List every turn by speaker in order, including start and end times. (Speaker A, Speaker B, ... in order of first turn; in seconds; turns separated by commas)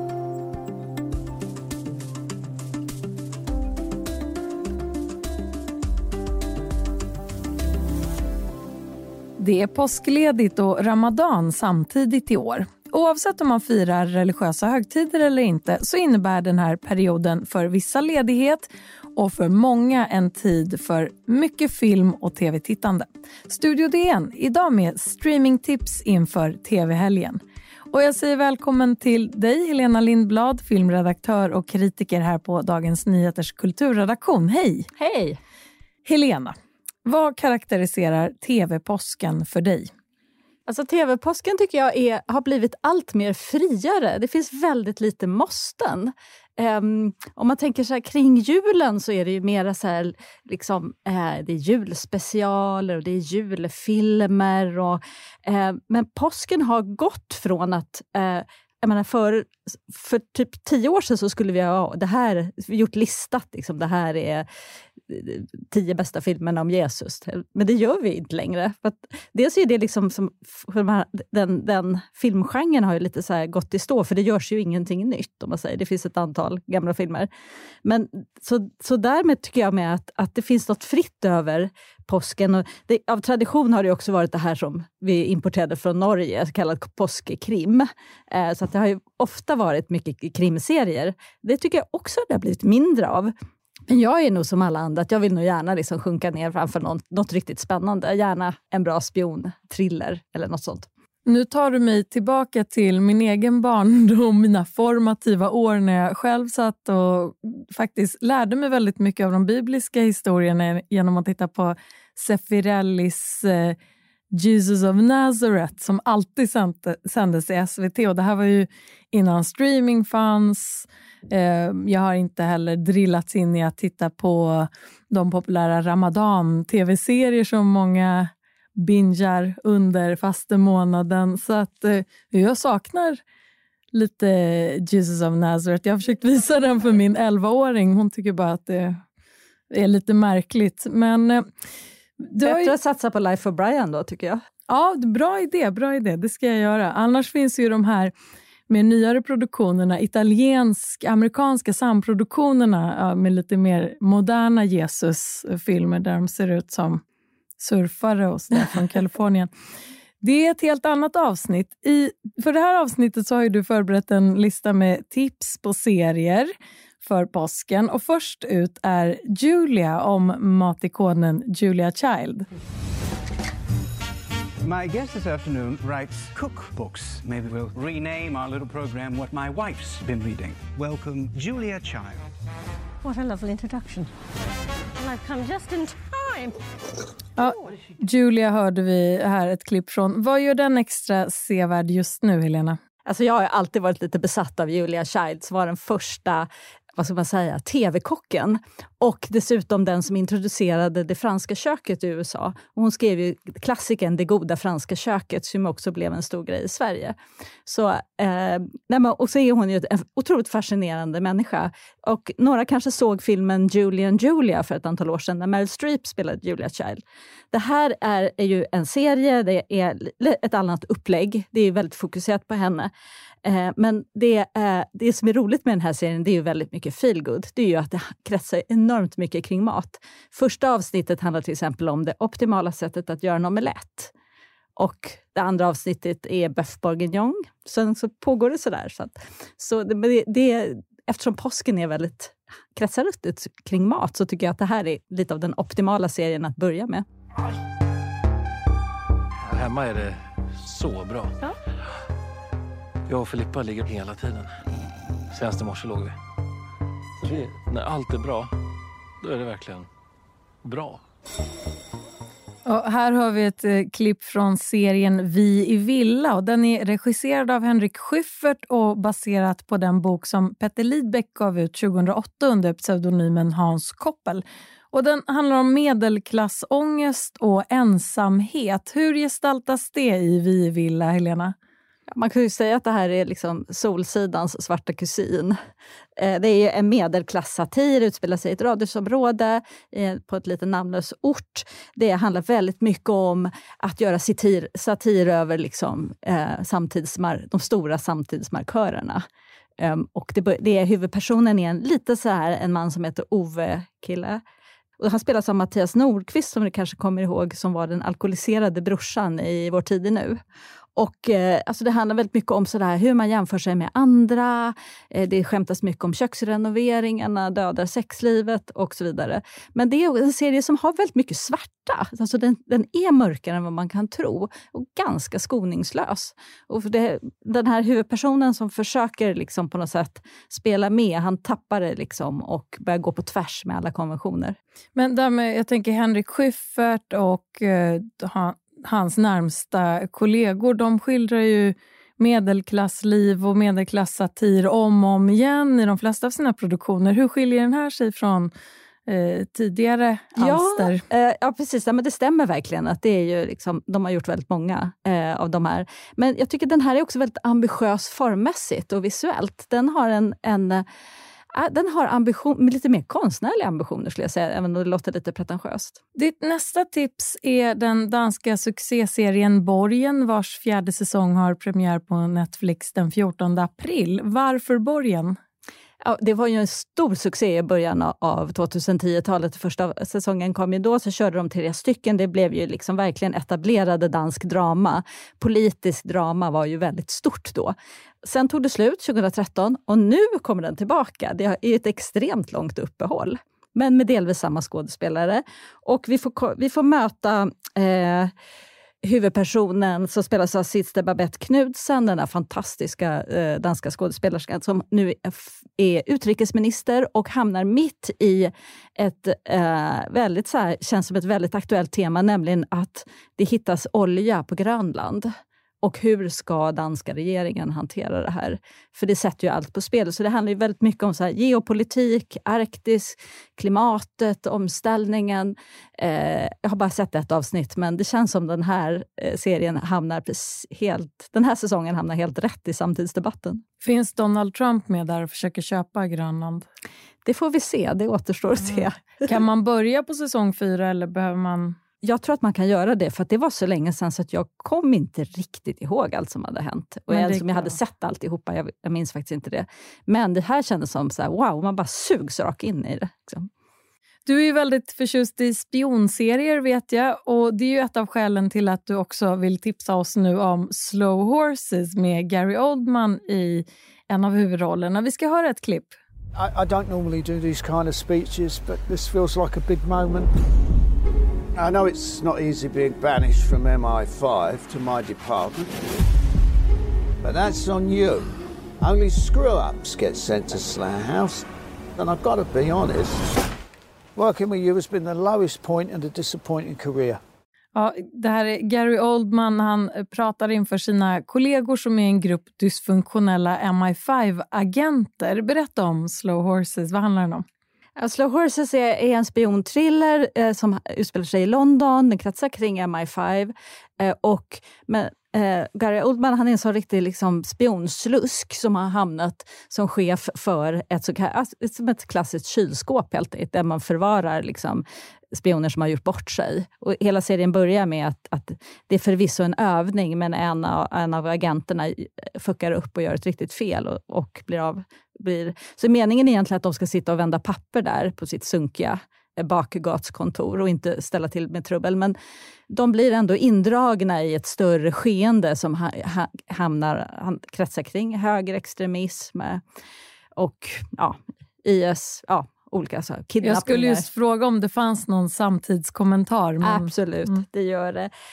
Speaker A: 9.4-27.4, Speaker A: 27.9-34.9, Speaker B: 35.0-35.4, Speaker A: 36.0-36.5, Speaker A: 37.0-39.9, Speaker B: 40.7-64.5, Speaker B: 65.1-77.3, Speaker B: 77.8-93.3, Speaker B: 93.9-100.9, Speaker A: 101.2-113.8, Speaker A: 114.3-133.2, Speaker A: 133.9-139.0, Speaker A: 139.7-141.4, Speaker A: 142.2-142.7, Speaker B: 142.4-144.4, Speaker A: 144.7-148.1, Speaker A: 148.7-157.0, Speaker A: 157.6-159.5, Speaker A: 160.2-166.5, Speaker A: 167.0-172.5, Speaker C: 174.6-182.3, Speaker D: 183.0-184.1, Speaker D: 185.0-186.6, Speaker A: 187.4-192.8, Speaker B: 193.1-207.2, Speaker B: 207.7-222.9, Speaker B: 223.4-234.1, Speaker B: 234.8-247.0, Speaker E: 249.5-251.3, Speaker E: 253.1-254.5, Speaker E: 255.3-256.1, Speaker E: 257.2-258.5, Speaker E: 259.2-259.9, Speaker E: 260.6-261.0, Speaker A: 262.6-281.5, Speaker B: 282.1-285.6, Speaker B: 286.2-299.2, Speaker B: 299.8-304.4, Speaker B: 305.0-310.4, Speaker B: 311.0-334.6, Speaker A: 334.9-348.5, Speaker A: 349.1-351.0, Speaker B: 350.4-360.8, Speaker B: 361.5-366.0, Speaker A: 366.1-375.4, Speaker B: 376.0-398.3, Speaker B: 399.0-415.3, Speaker B: 415.8-433.6, Speaker A: 433.8-436.7, Speaker B: 437.2-439.2, Speaker A: 438.7-441.8, Speaker B: 442.0-453.5, Speaker A: 447.1-447.7, Speaker A: 454.3-466.0, Speaker F: 466.4-470.3, Speaker F: 471.6-475.7, Speaker F: 477.2-478.3, Speaker F: 478.8-483.4, Speaker F: 484.1-487.2, Speaker A: 487.7-497.4, Speaker B: 498.0-532.1, Speaker B: 532.7-539.6, Speaker B: 540.4-544.1, Speaker A: 543.4-547.4, Speaker B: 546.6-548.1